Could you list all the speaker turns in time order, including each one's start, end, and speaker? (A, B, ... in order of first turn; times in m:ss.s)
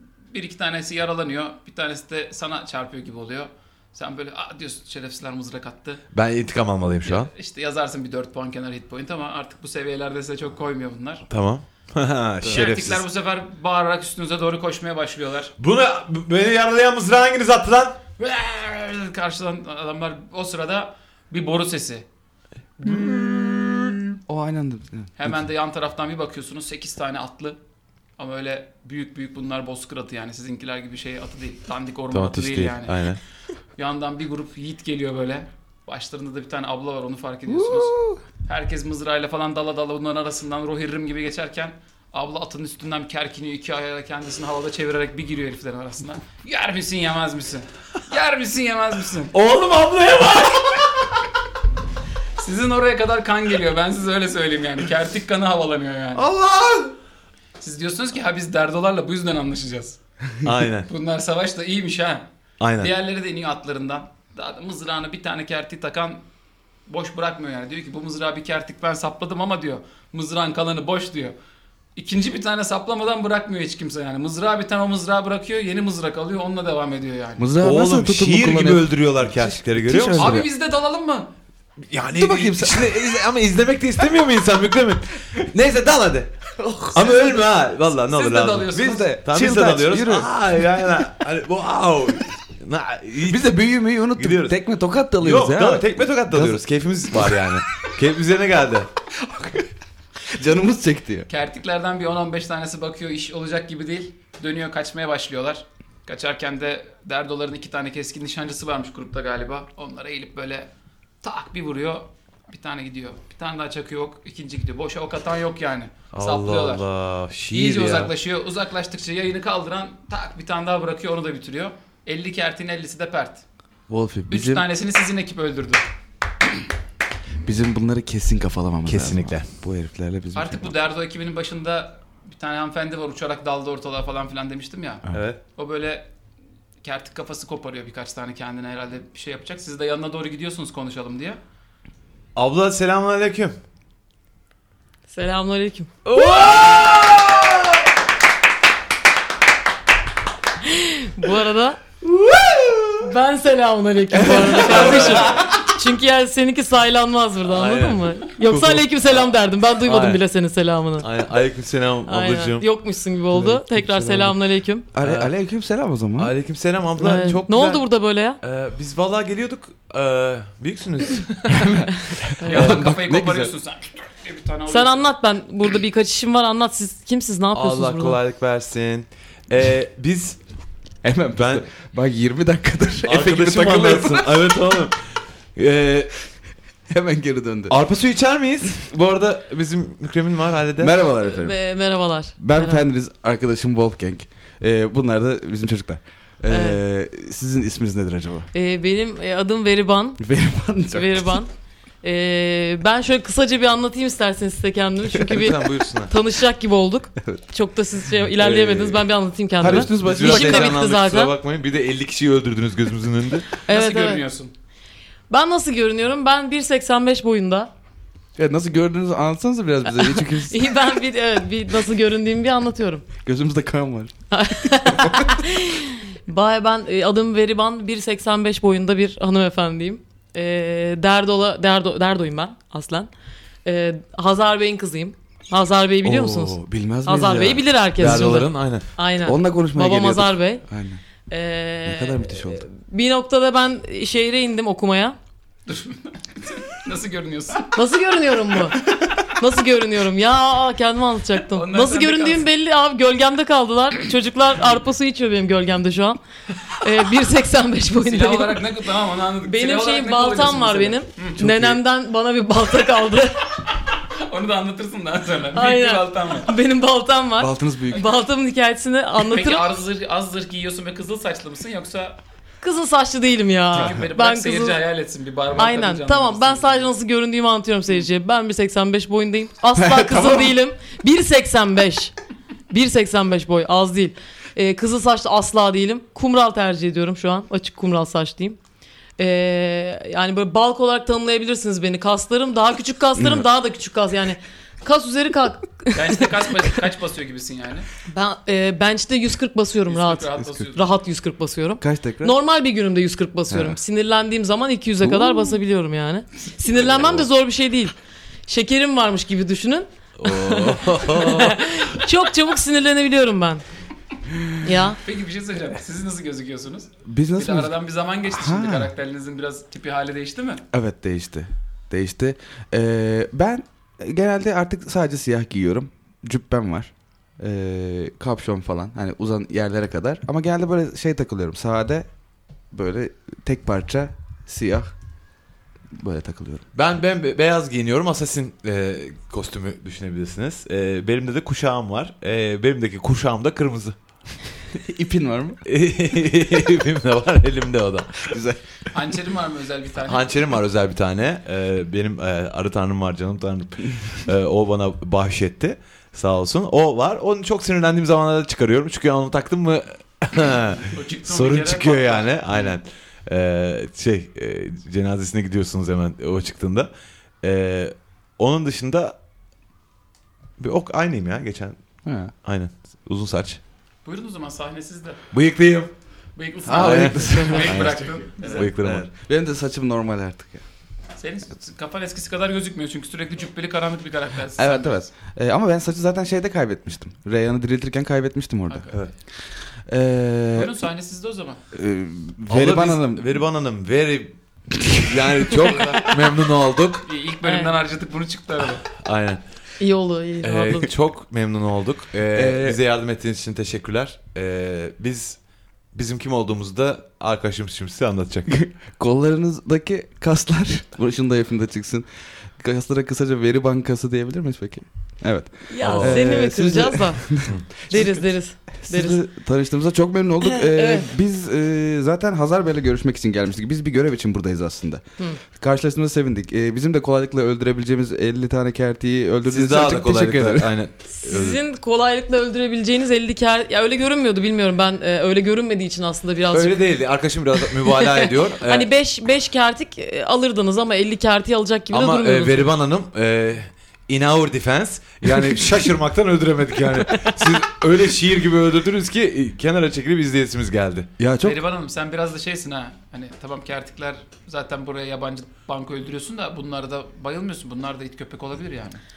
0:00.3-0:06.0 A
0:06.1-0:07.3 B
0:07.0-0:11.3 A
0:11.3-0:13.0 B
0:12.4-0:15.5 A
0:15.6-0:18.0 B
0:18.2-0:22.1 A
0:22.8-0:24.2 B
0:24.3-0:25.1 C
0:25.2-0:27.6 A
0:28.2-0:33.2 A
0:32.1-0:33.2 B
0:33.8-0:49.4 A
0:37.5-0:38.2 C
0:49.3-0:51.1 B
0:52.4-0:56.3 A
0:56.2-0:57.0 B
0:57.6-1:00.0 A
1:00.4-1:00.9 B
1:00.9-1:02.3 A
1:02.6-1:02.9 B
1:02.8-1:06.2 A
1:06.9-1:11.4 A
1:12.0-1:17.5 A
1:17.4-1:20.5 C
1:17.6-1:20.4 B
1:20.2-1:21.3 A
1:21.8-1:26.3 B
1:22.2-1:23.0 C
1:26.6-1:27.4 C
1:26.9-1:33.6 B
1:28.0-1:29.1 A
1:28.8-1:30.3 C
1:33.3-1:36.6 C
1:34.2-1:34.6 B
1:35.2-1:38.9 B
1:37.1-1:37.4 C
1:39.2-1:39.7 C
1:40.3-1:41.3 C
1:41.3-1:50.7 A
1:51.2-1:56.8 A
1:56.1-1:58.1 B
1:57.5-2:03.4 A
2:03.9-2:04.7 C
2:04.3-2:05.9 A
2:07.4-2:10.7 C
2:08.8-2:09.5 B
2:10.4-2:15.0 A
2:15.1-2:15.4 B
2:15.6-2:16.1 A
2:16.8-2:21.4 A
2:22.4-2:23.6 B
2:25.1-2:25.9 D
2:26.1-2:27.6 B
2:30.6-2:31.8 D
2:32.2-2:32.9 C
2:33.0-2:41.1 D
2:34.1-2:35.7 C
2:34.6-2:35.5 B
2:34.6-2:35.5 A
2:37.4-2:40.2 B
2:41.0-2:42.7 B
2:42.1-2:44.9 D
2:43.3-2:44.4 C
2:44.9-2:46.3 C
2:45.0-2:45.3 B
2:46.2-2:47.8 B
2:47.0-2:48.4 D
2:48.4-2:51.9 B
2:51.5-2:53.5 C
2:52.4-2:55.1 A
2:52.5-2:52.9 B
2:54.7-2:58.2 D
2:57.5-3:00.4 B
3:01.0-3:04.6 C
3:01.4-3:01.6 B
3:03.0-3:05.0 B
3:05.6-3:06.1 B
3:06.9-3:07.8 C
3:07.7-3:11.0 B
3:10.8-3:11.6 C
3:11.2-3:12.9 D
3:12.4-3:18.5 C
3:16.5-3:16.8 D
3:18.5-3:20.2 D
3:20.2-3:21.4 C
3:20.9-3:21.5 D
3:22.0-3:31.4 D
3:25.3-3:26.1 B
3:28.4-3:29.1 B
3:29.6-3:30.8 C
3:29.6-3:33.5 B
3:33.7-3:34.2 D
3:33.7-3:34.5 A
3:35.3-3:37.7 D
3:38.4-3:40.8 C
3:39.9-3:43.1 D
3:43.2-3:44.1 C
3:44.3-3:53.1 D
3:44.7-3:45.4 C
3:53.6-4:00.6 D
3:56.0-3:58.3 C
3:58.0-3:58.8 B
3:59.2-4:01.0 C
4:01.3-4:05.2 D
4:01.8-4:02.6 C
4:05.7-4:07.8 A
4:07.7-4:18.6 D
4:11.5-4:12.5 A
4:18.0-4:21.4 A
4:19.5-4:23.5 D
4:21.4-4:21.8 C
4:24.1-4:26.5 A
4:25.6-4:29.7 D
4:27.4-4:28.1 C
4:29.3-4:32.2 A
4:32.6-4:34.8 D
4:33.7-4:36.9 A
4:35.6-4:42.1 D
4:39.8-4:40.6 C
4:42.7-4:48.6 D
4:49.2-4:56.8 D
4:53.2-4:53.4 C
4:55.9-4:57.9 A
4:58.1-5:07.9 D
4:59.9-5:00.8 A
5:01.8-5:02.4 C
5:03.5-5:03.8 C
5:05.0-5:05.6 C
5:06.7-5:07.3 B
5:08.5-5:13.6 D
5:10.2-5:11.9 B
5:14.6-5:15.0 D
5:15.0-5:20.6 A
5:17.1-5:17.7 C
5:18.2-5:18.9 C
5:20.7-5:32.1 C
5:32.7-5:34.9 C
5:35.9-5:36.6 C
5:36.7-5:44.0 B
5:44.7-5:45.6 C
5:45.7-5:48.4 B
5:48.2-5:48.6 C
5:48.9-5:50.4 A
5:50.0-6:06.9 B
6:00.9-6:02.8 A
6:07.4-6:09.2 B
6:10.6-6:11.8 B
6:12.0-6:12.3 C
6:12.4-6:13.6 B
6:14.0-6:15.2 A
6:15.3-6:15.9 B
6:16.4-6:19.0 A
6:16.6-6:20.6 C
6:16.7-6:19.1 B
6:21.2-6:25.0 A
6:24.6-6:30.7 C
6:28.7-6:29.0 A
6:30.5-6:31.6 A
6:31.7-6:33.4 C
6:32.5-6:34.4 B
6:34.9-6:37.1 B
6:35.5-6:36.3 A
6:37.0-6:38.9 A
6:37.4-6:37.8 D
6:38.9-6:39.4 B
6:39.8-6:40.9 D
6:40.4-6:45.4 B
6:42.3-6:42.8 C
6:45.9-6:48.5 B
6:48.5-6:58.2 C
6:55.7-6:59.2 D
6:55.8-6:56.4 B
6:57.9-6:58.2 A
6:58.8-7:10.8 C
7:00.4-7:01.1 D
7:09.5-7:11.6 B
7:11.2-7:16.8 D
7:16.5-7:18.9 B
7:17.6-7:22.7 D
7:21.9-7:31.1 B
7:31.2-7:31.6 C
7:31.4-7:39.0 A